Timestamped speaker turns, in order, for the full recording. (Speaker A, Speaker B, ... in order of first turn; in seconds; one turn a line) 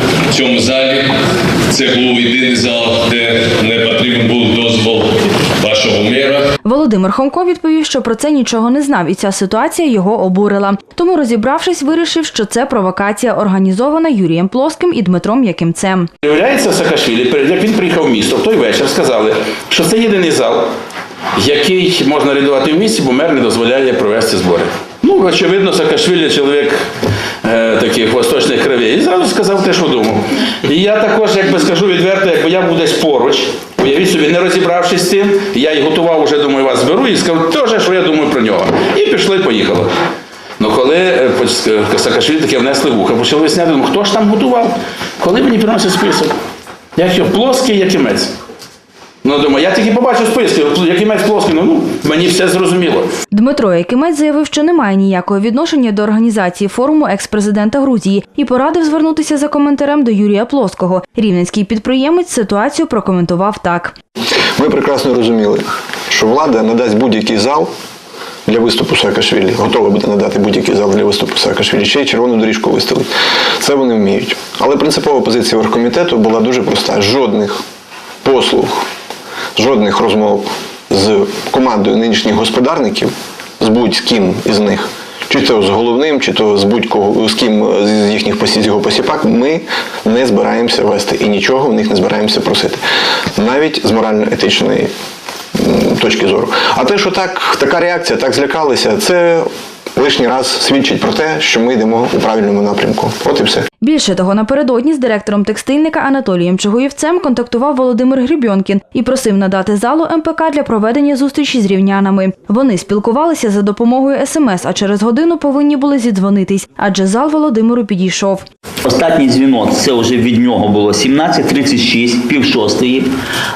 Speaker A: 0.3-1.1
Speaker A: 1.7-6.5
Speaker B: 6.6-16.1
Speaker C: 16.2-20.7
Speaker C: 21.4-26.8
Speaker C: 27.4-39.9
Speaker C: 40.6-46.3
Speaker C: 47.0-48.3
Speaker C: 49.2-53.1
Speaker B: 53.3-64.0
Speaker D: 64.6-67.7
Speaker D: 68.5-77.6
Speaker D: 78.2-78.8
Speaker D: 79.5-92.8
Speaker D: 93.3-94.9
Speaker D: 95.5-103.7
Speaker B: 103.8-118.5
Speaker E: 118.8-123.1